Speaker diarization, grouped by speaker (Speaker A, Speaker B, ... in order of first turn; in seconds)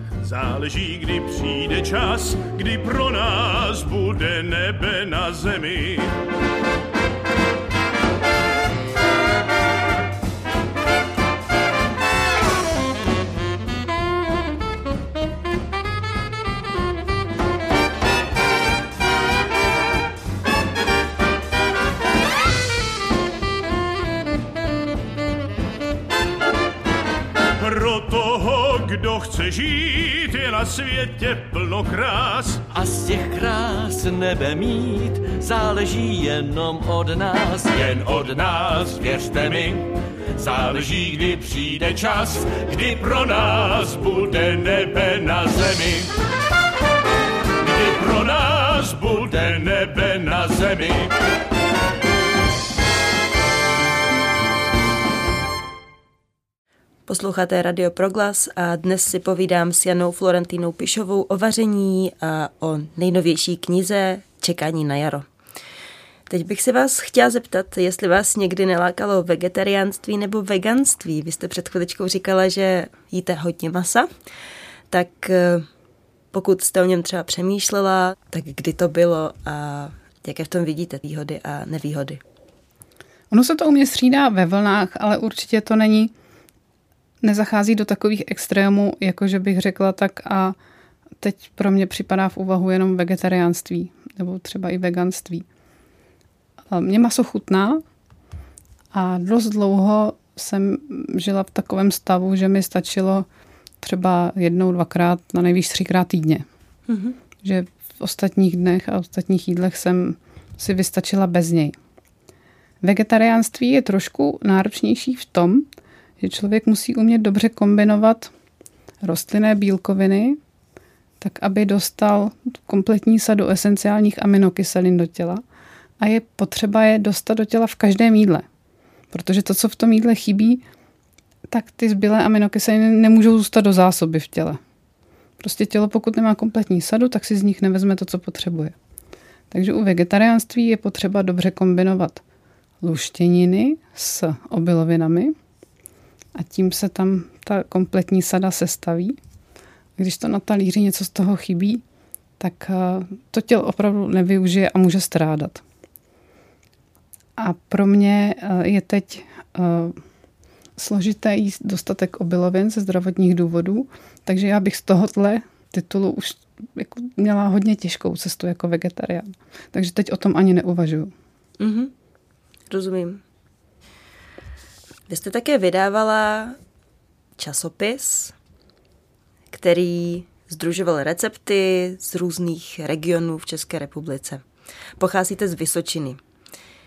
Speaker A: 0.2-6.1, 27.6-32.7, 38.0-38.9, 40.8-46.1, 47.6-51.1
Speaker B: 32.7-37.9
Speaker C: 57.1-65.2, 66.3-74.1, 74.9-75.7, 76.3-82.2, 106.9-107.2, 171.6-171.9, 172.7-173.2, 175.1-176.6, 177.4-178.3, 179.5-184.4, 185.0-186.2
Speaker D: 83.3-86.1, 87.2-90.5, 91.2-95.4, 96.7-97.8, 98.9-103.3, 103.8-106.4, 107.4-111.8, 112.8-115.7, 116.2-118.3, 119.0-120.4, 121.2-125.4, 126.0-128.4, 129.1-130.6, 131.5-134.6, 135.4-138.7, 139.5-142.2, 142.8-145.3, 146.3-149.2, 150.0-151.8, 152.4-155.6, 157.4-160.0, 160.8-171.1